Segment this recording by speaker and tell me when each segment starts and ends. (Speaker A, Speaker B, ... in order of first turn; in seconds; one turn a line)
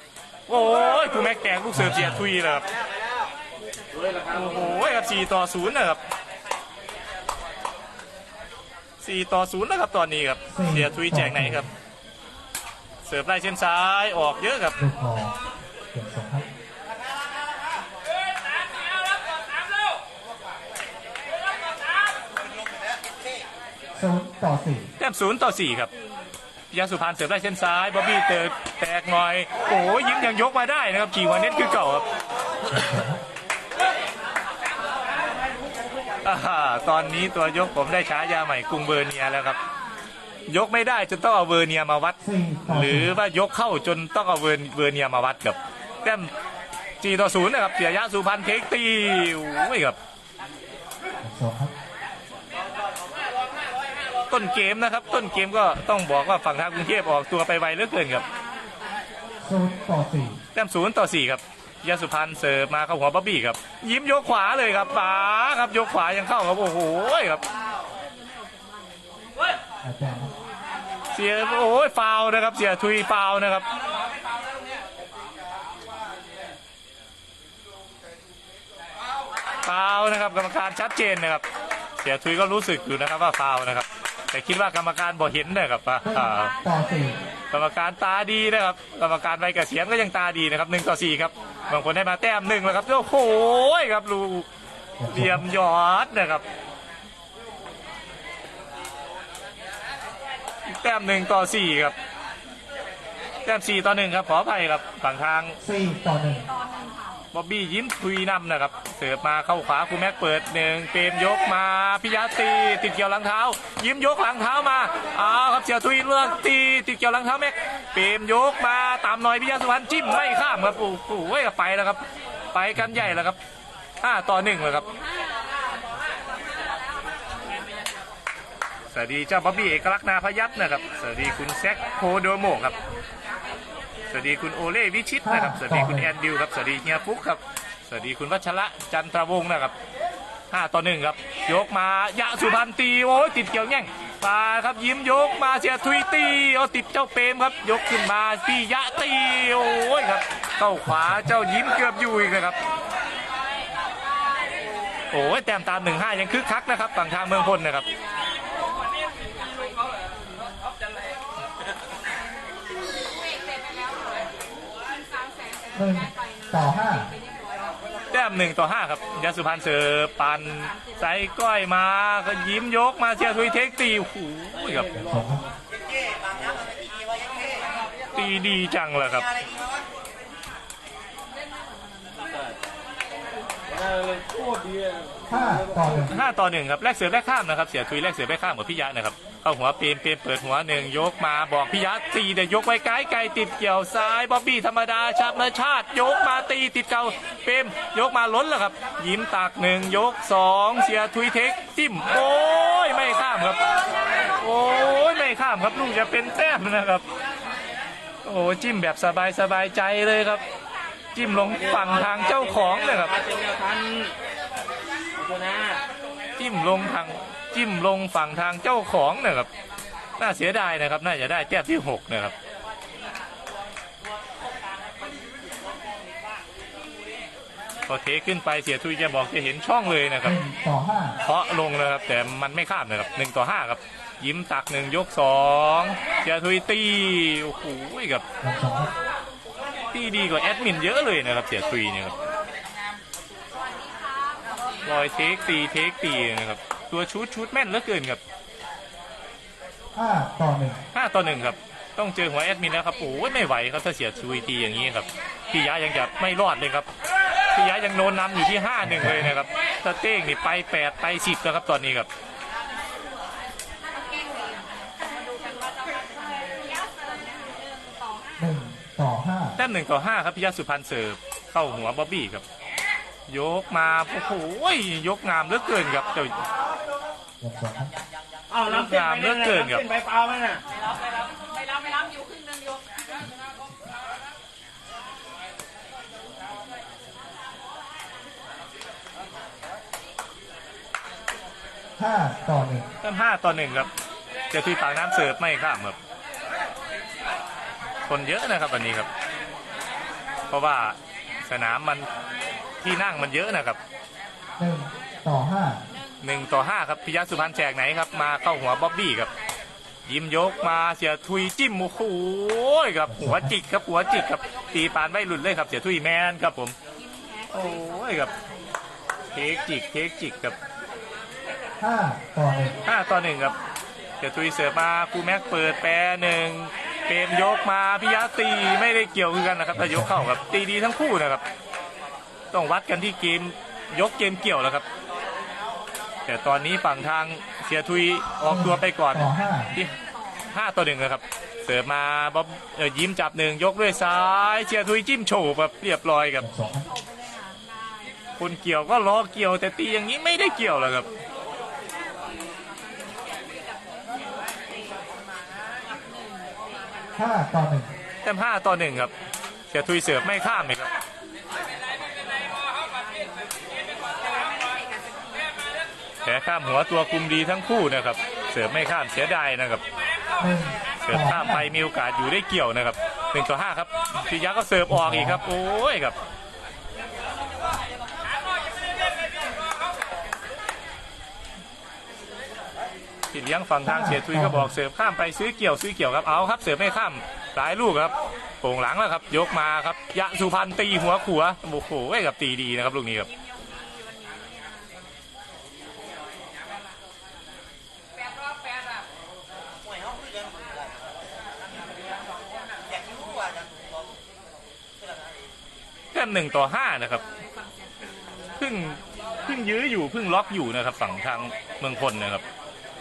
Speaker A: 0.5-2.6
Speaker B: 1.7-2.3
Speaker C: 3.9-4.8
Speaker A: 4.3-6.0
Speaker A: 9.0-11.7
Speaker B: 10.5-11.7
Speaker A: 13.0-14.7
Speaker B: 14.8-15.4
Speaker B: 15.9-16.5
Speaker B: 23.9-24.9
Speaker A: 25.0-25.9
Speaker A: 26.7-32.1
Speaker B: 32.7-33.2
Speaker A: 36.2-39.6
Speaker A: 40.5-46.3
Speaker B: 42.2-43.1
Speaker A: 47.0-50.0
Speaker B: 51.2-51.7
Speaker A: 54.3-58.2
Speaker D: 58.3-59.0
Speaker B: 59.4-60.4
Speaker A: 60.5-67.4
Speaker D: 67.8-69.6
Speaker B: 69.8-70.3
Speaker A: 71.1-73.7
Speaker A: 79.6-81.5
Speaker A: 82.0-86.5
Speaker B: 86.0-87.2
Speaker A: 87.5-94.5
Speaker B: 95.0-95.5
Speaker A: 95.1-96.4
Speaker A: 100.7-102.0
Speaker A: 103.4-105.6
Speaker B: 105.6-106.5
Speaker D: 106.4-107.2
Speaker A: 107.3-123.4
Speaker B: 122.8-123.2
Speaker A: 124.0-124.8
Speaker D: 124.9-127.8
Speaker A: 128.9-132.7
Speaker D: 133.0-133.8
Speaker A: 134.1-139.7
Speaker B: 135.2-136.1
Speaker A: 140.5-152.6
Speaker B: 150.8-151.4
Speaker D: 153.7-155.0
Speaker A: 155.1-157.8
Speaker D: 158.0-160.6
Speaker D: 162.2-167.8
Speaker B: 165.7-167.1
Speaker A: 168.1-174.9
Speaker C: 174.5-175.5
Speaker B: 174.9-175.4
Speaker A: 178.1-179.3
Speaker D: 181.3-182.2
Speaker C: 182.3-182.6
Speaker C: 183.7-186.2
Speaker B: 185.3-186.2
Speaker A: 186.1-203.6
Speaker A: 204.3-207.0
Speaker A: 208.2-210.4
Speaker A: 211.1-213.1
Speaker C: 211.3-214.1
Speaker C: 215.2-215.8
Speaker A: 216.4-219.5
Speaker A: 220.2-222.3
Speaker A: 227.9-230.4
Speaker B: 230.2-231.2
Speaker A: 231.2-238.2
Speaker B: 238.4-238.9
Speaker A: 239.9-242.1
Speaker D: 243.5-244.9
Speaker A: 244.8-248.2
Speaker B: 249.9-250.8
Speaker A: 250.9-256.9
Speaker A: 257.5-262.1
Speaker B: 258.8-259.3
Speaker D: 263.9-268.4
Speaker B: 268.4-269.6
Speaker A: 269.6-272.4
Speaker A: 273.3-276.4
Speaker B: 277.4-277.9
Speaker C: 278.5-280.6
Speaker A: 278.7-279.9
Speaker D: 280.7-282.9
Speaker B: 292.0-292.9
Speaker A: 293.0-293.9
Speaker A: 294.5-296.0
Speaker A: 298.1-299.1
Speaker A: 300.5-302.1
Speaker A: 302.8-303.8
Speaker B: 304.6-305.9
Speaker A: 306.2-309.3
Speaker A: 310.1-316.7
Speaker B: 313.1-313.6
Speaker D: 316.9-318.4
Speaker A: 317.5-318.3
Speaker A: 319.3-320.6
Speaker B: 321.8-322.8
Speaker A: 322.8-323.5
Speaker A: 324.2-331.4
Speaker B: 329.7-330.3
Speaker A: 332.5-334.9
Speaker A: 336.2-339.9
Speaker B: 338.4-339.7
Speaker A: 340.5-346.5
Speaker B: 346.4-346.9
Speaker D: 346.7-348.4
Speaker A: 348.4-351.1
Speaker D: 351.9-355.0
Speaker D: 355.8-357.1
Speaker B: 357.2-357.9
Speaker A: 358.2-359.1
Speaker A: 359.7-360.9
Speaker D: 362.2-365.5
Speaker A: 366.2-369.8
Speaker B: 370.4-371.7
Speaker A: 371.0-376.2
Speaker B: 374.9-375.4
Speaker A: 383.3-393.3
Speaker B: 383.8-384.7
Speaker D: 393.3-395.0
Speaker A: 406.1-407.2
Speaker D: 407.2-408.6
Speaker A: 408.6-412.4